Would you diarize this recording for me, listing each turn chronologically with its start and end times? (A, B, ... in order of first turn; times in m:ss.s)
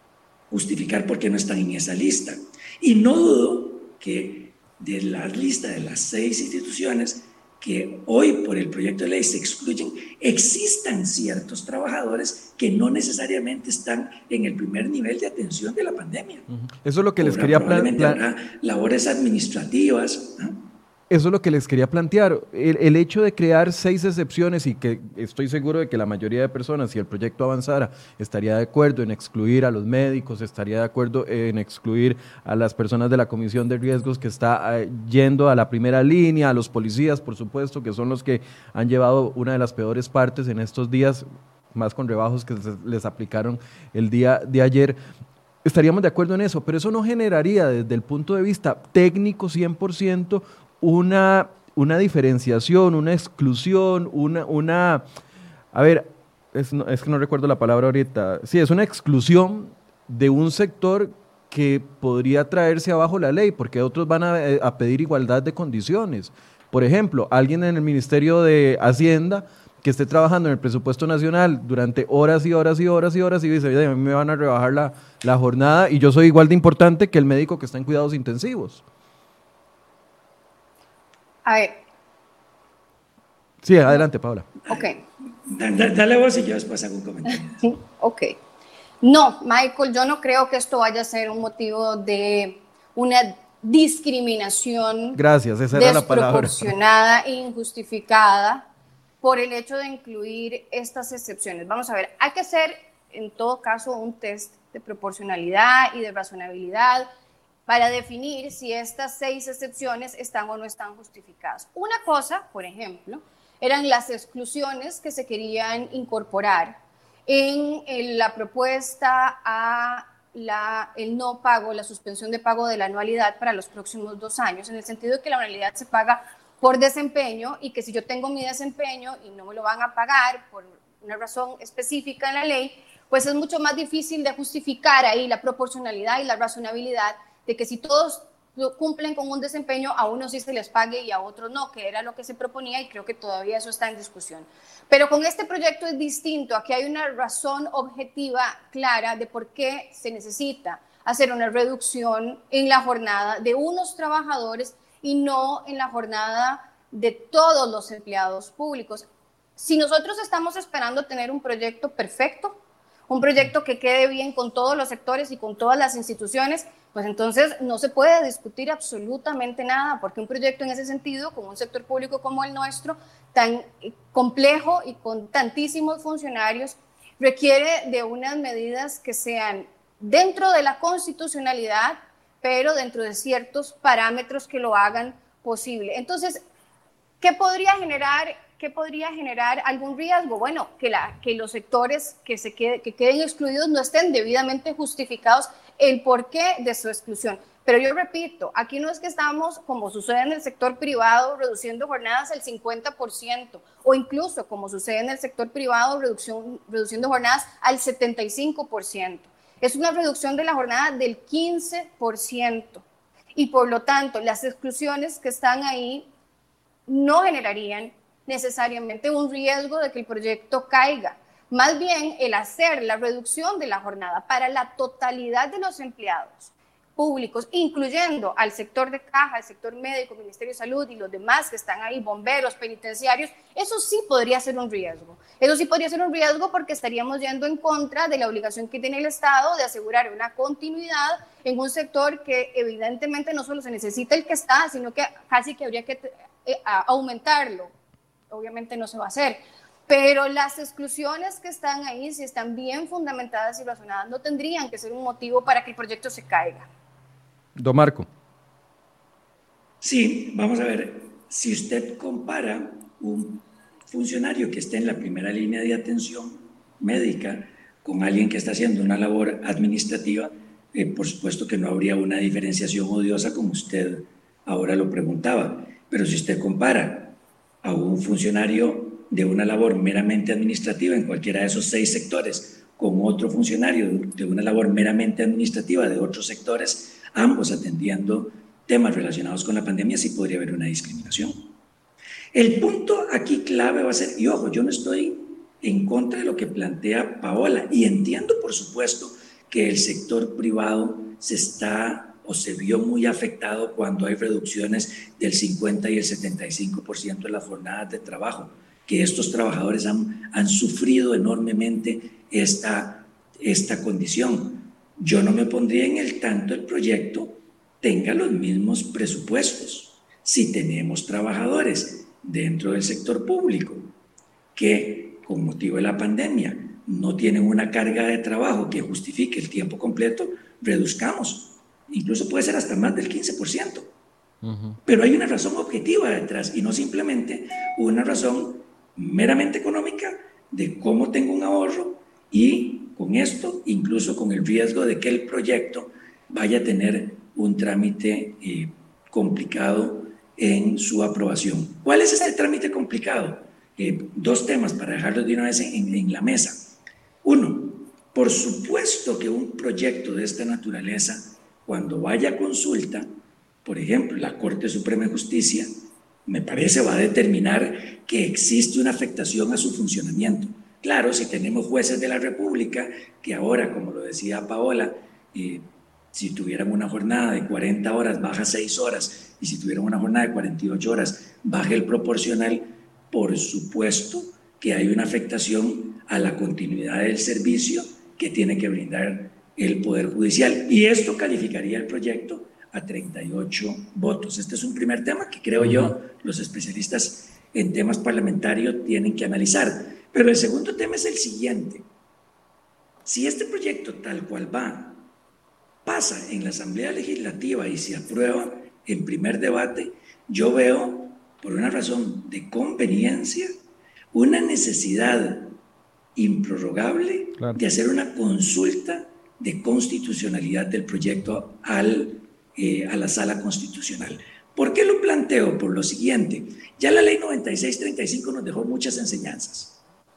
0:00.5-0:16.4 A
0:16.6-0:18.2 B
0:17.2-0:20.6 A
0:21.1-0:45.0 B
0:45.6-0:55.0 B
0:55.7-1:18.8 B
1:21.4-1:21.8 C
1:23.6-1:24.5 B
1:24.7-1:25.0 C
1:25.4-1:27.7 A
1:27.6-1:28.4 C
1:29.0-1:35.2 C
1:35.1-1:36.7 B
1:35.7-1:38.6 C
1:39.2-1:47.1 C
1:47.7-2:39.1 C
2:39.6-2:42.6 C
2:43.1-3:06.4 C
3:07.2-3:32.8 C
3:33.4-3:36.1 C
3:36.9-4:07.7 C
4:08.3-4:16.7 C
4:17.6-4:18.1 B
4:19.8-4:51.5 A
4:52.3-5:23.9 A
5:24.6-5:33.9 A
5:34.4-5:34.8 B
5:34.8-5:56.7 A
5:57.2-6:03.1 A
6:03.6-6:05.7 A
6:06.2-6:41.8 A
6:35.6-6:35.9 B
6:43.0-6:45.1 A
6:45.8-6:53.5 A
6:54.1-6:55.6 A
6:56.1-7:09.8 A